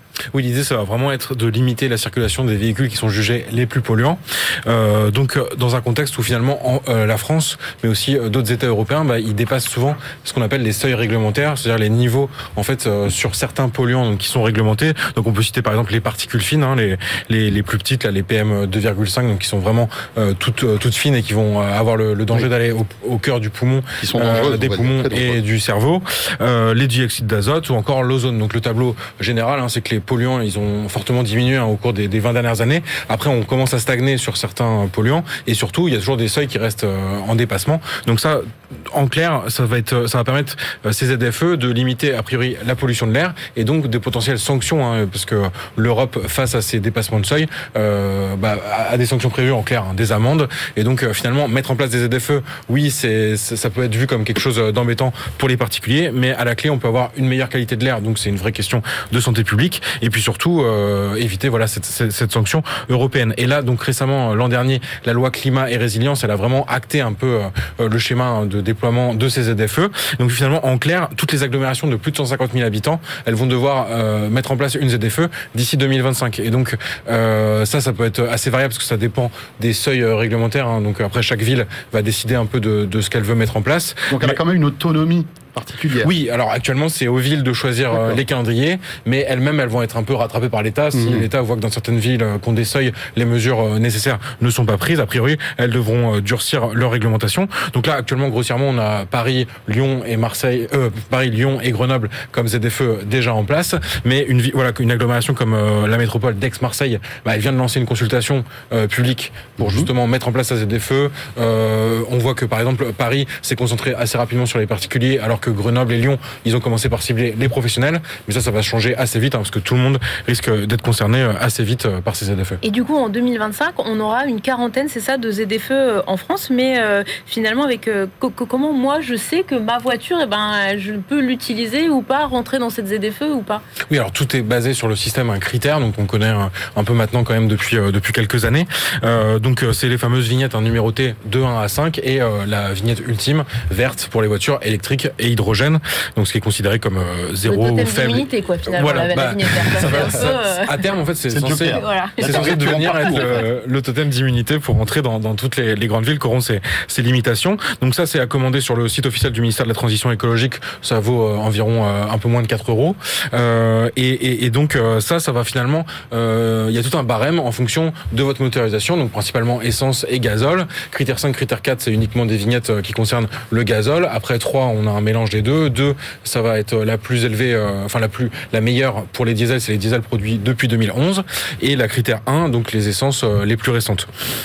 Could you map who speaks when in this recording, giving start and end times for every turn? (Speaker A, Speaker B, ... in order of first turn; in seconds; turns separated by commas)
Speaker A: 0.3-84.4, Speaker B: 24.0-25.4, Speaker B: 84.1-86.1, Speaker A: 86.0-122.6, Speaker B: 87.9-88.2, Speaker B: 90.9-91.3, Speaker B: 109.6-109.9, Speaker C: 122.6-133.6, Speaker A: 133.9-184.1, Speaker C: 147.4-150.8, Speaker B: 149.8-150.3, Speaker B: 151.3-153.4, Speaker C: 151.7-152.4